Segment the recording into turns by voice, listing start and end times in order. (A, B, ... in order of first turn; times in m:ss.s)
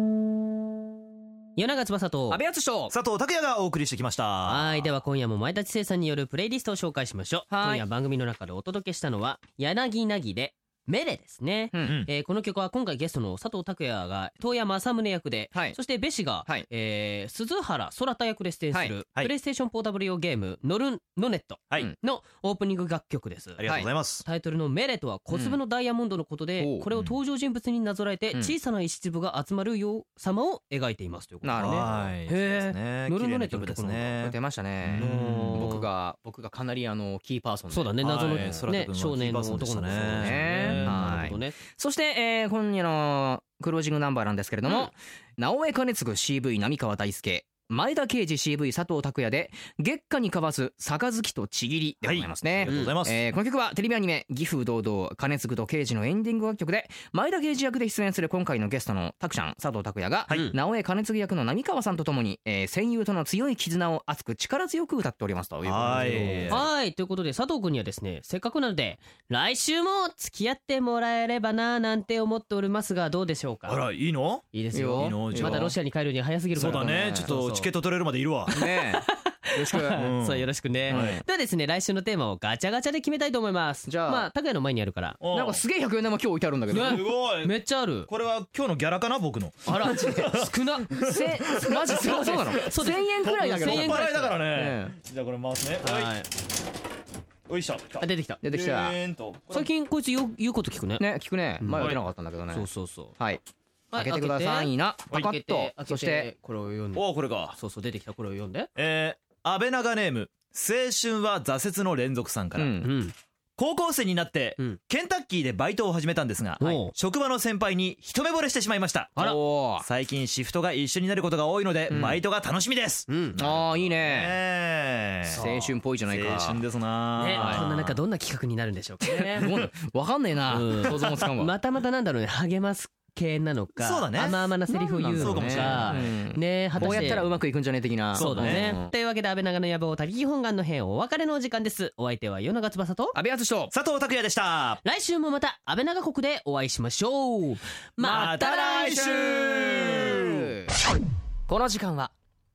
0:01.6-0:02.4 A
0:02.3-0:03.0 B
0:02.9-0:04.9 C
0:04.5-0:23.7 A
0:07.5-0:07.8 B
0:11.7-0:12.0 B
0:11.8-0:12.1 C
0:23.6-0:24.2 C
0:24.2-0:34.1 A
0:25.3-0:25.6 B
0:26.6-0:26.9 B
0:26.9-0:27.2 C
0:31.4-0:32.1 B
0:31.6-0:35.8 C
0:34.2-0:38.6 B
0:35.0-0:35.9 A
0:37.7-0:41.6 A
0:38.0-0:41.4 C
0:40.1-1:06.6 B
0:52.0-0:53.2 C
0:52.7-0:52.9 A
1:00.3-1:00.6 A
1:05.6-1:06.7 C
1:06.0-1:13.8 A
1:13.7-1:15.7 C
1:14.5-1:17.7 A
1:14.7-1:15.7 B
1:16.6-1:18.6 C
1:16.7-1:17.3 B
1:18.6-1:20.1 B
1:18.6-1:25.2 A
1:19.9-1:21.2 C
1:20.9-1:21.2 B
1:23.9-1:24.3 B
1:25.2-1:25.6 C
1:25.3-1:27.1 B
1:26.7-1:28.1 A
1:26.7-1:32.5 C
1:29.7-1:30.4 B
1:30.3-1:30.9 A
1:31.0-1:35.0 B
1:31.9-1:34.4 A
1:33.2-1:36.2 C
1:35.8-1:36.3 A
1:37.5-1:39.7 C
1:38.0-1:38.4 A
1:38.4-1:39.0 B
1:39.5-1:41.1 A
1:41.0-1:43.4 B
1:41.6-1:42.0 A
1:42.5-1:43.2 A
1:43.9-1:48.7 A
1:44.0-1:46.3 B
1:47.0-1:47.6 C
1:48.8-1:52.9 C
1:52.6-1:52.9 B
1:52.8-1:53.2 A
1:53.6-2:05.4 C
1:56.6-1:56.9 A
1:59.2-1:59.9 B
2:01.9-2:02.2 B
2:03.1-2:03.4 A
2:03.4-2:04.4 B
2:05.3-2:05.7 A
2:05.3-2:06.6 B
2:06.1-2:08.0 C
2:07.2-2:09.5 A
2:07.4-2:07.6 B
2:09.1-2:11.5 B
2:10.5-2:17.3 A
2:13.8-2:14.4 C
2:14.7-2:18.9 B
2:15.1-2:16.1 C
2:16.8-2:17.3 C
2:18.1-2:18.8 C
2:18.2-2:23.2 A
2:23.2-2:23.7 B
2:23.7-2:24.8 C
2:24.8-2:29.1 A
2:28.0-2:30.7 B
2:28.0-2:30.5 C
2:31.5-2:32.1 B